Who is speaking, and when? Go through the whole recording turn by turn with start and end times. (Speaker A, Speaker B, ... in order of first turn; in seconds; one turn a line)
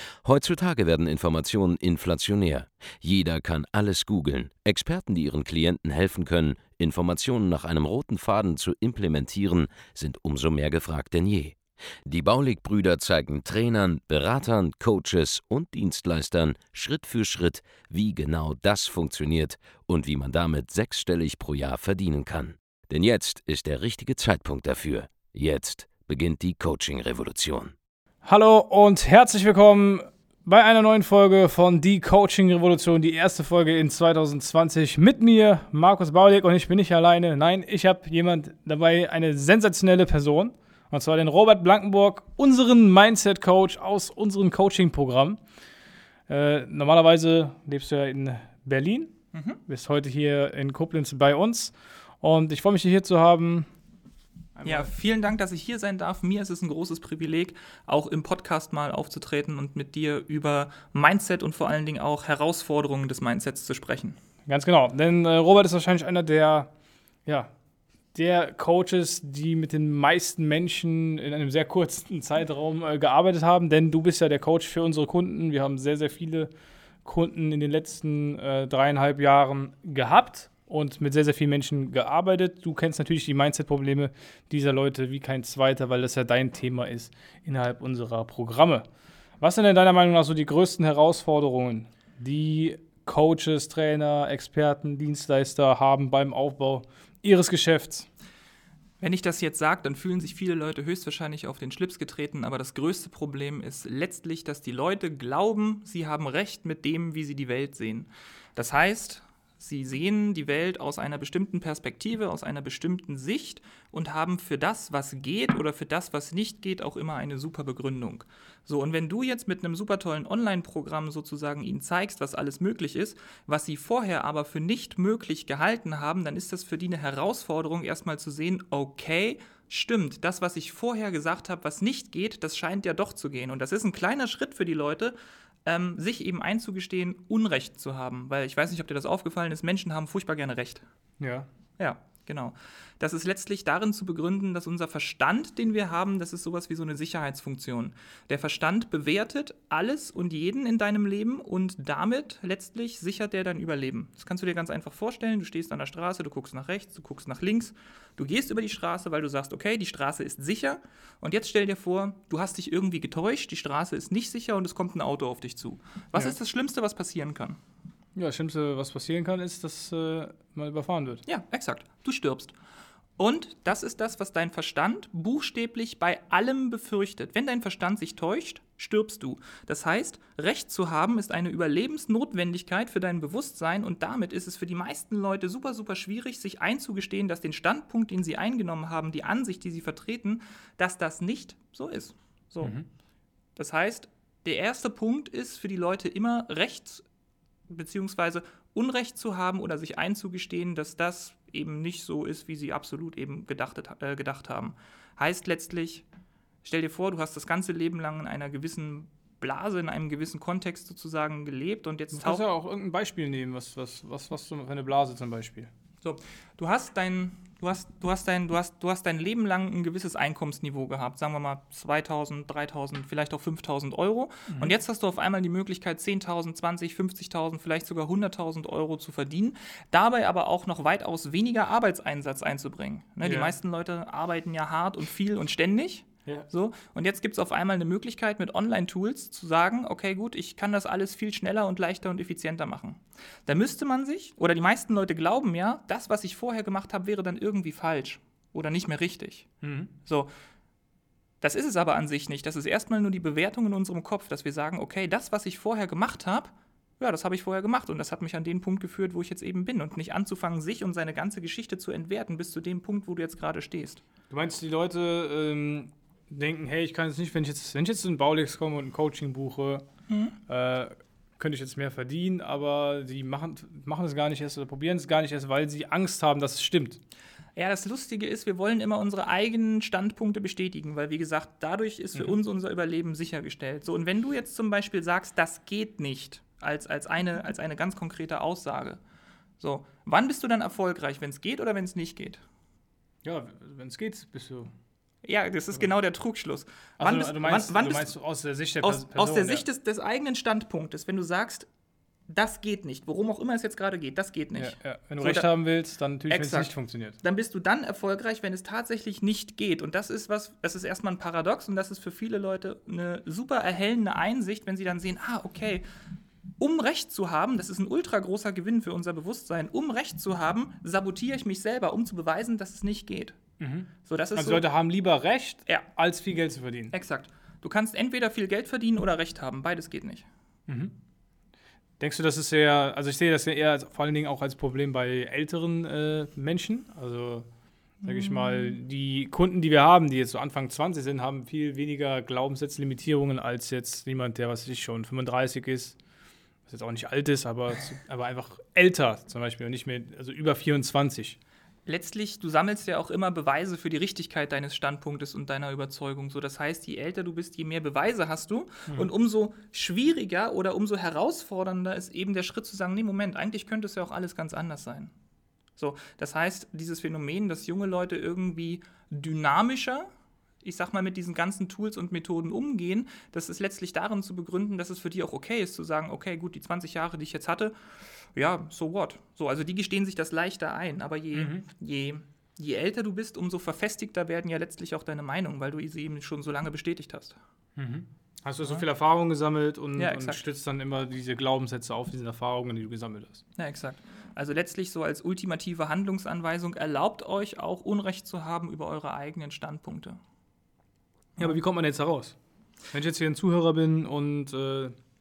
Speaker A: 0.2-27.7
Speaker B: 28.2-45.4
Speaker B: 46.3-49.1
Speaker C: 49.3-49.6
Speaker B: 49.7-53.7
Speaker B: 54.6-54.9
Speaker C: 54.6-64.2
Speaker B: 64.5-66.7
Speaker B: 67.2-67.5
Speaker B: 68.1-76.5
Speaker B: 77.0-88.8
Speaker B: 89.4-98.1
Speaker C: 99.0-140.8
Speaker B: 141.2-141.5
Speaker C: 141.8-167.6
Speaker B: 168.1-171.2
Speaker C: 171.2-172.6
Speaker C: 173.2-192.7
Speaker B: 192.6-192.9
Speaker C: 193.6-197.0
Speaker C: 197.7-206.0
Speaker C: 206.6-212.4
Speaker B: 212.1-215.7
Speaker C: 216.0-249.5
Speaker B: 233.2-233.5
Speaker B: 249.6-249.9
Speaker C: 250.0-250.3
Speaker C: 251.4-264.0
Speaker B: 264.3-269.8
Speaker C: 270.1-270.4
Speaker B: 270.5-277.0
Speaker C: 277.6-289.0
Speaker C: 289.6-292.4
Speaker B: 293.2-294.7
Speaker C: 295.2-298.1
Speaker B: 297.0-299.6
Speaker C: 298.8-301.7
Speaker C: 302.3-305.5
Speaker B: 304.6-307.2
Speaker C: 306.3-315.9
Speaker C: 316.6-323.4
Speaker B: 323.6-326.9
Speaker C: 324.0-324.6
Speaker C: 326.9-330.3
Speaker B: 330.7-330.9
Speaker B: 332.0-337.5
Speaker C: 338.0-338.8
Speaker B: 338.0-346.0
Speaker B: 346.7-351.4
Speaker C: 351.9-365.1
Speaker C: 365.8-370.1
Speaker C: 370.6-377.7
Speaker C: 378.3-387.4
Speaker B: 381.3-381.6
Speaker B: 387.8-393.4
Speaker C: 390.0-390.4
Speaker C: 393.6-400.2
Speaker B: 401.4-402.4
Speaker B: 402.9-404.9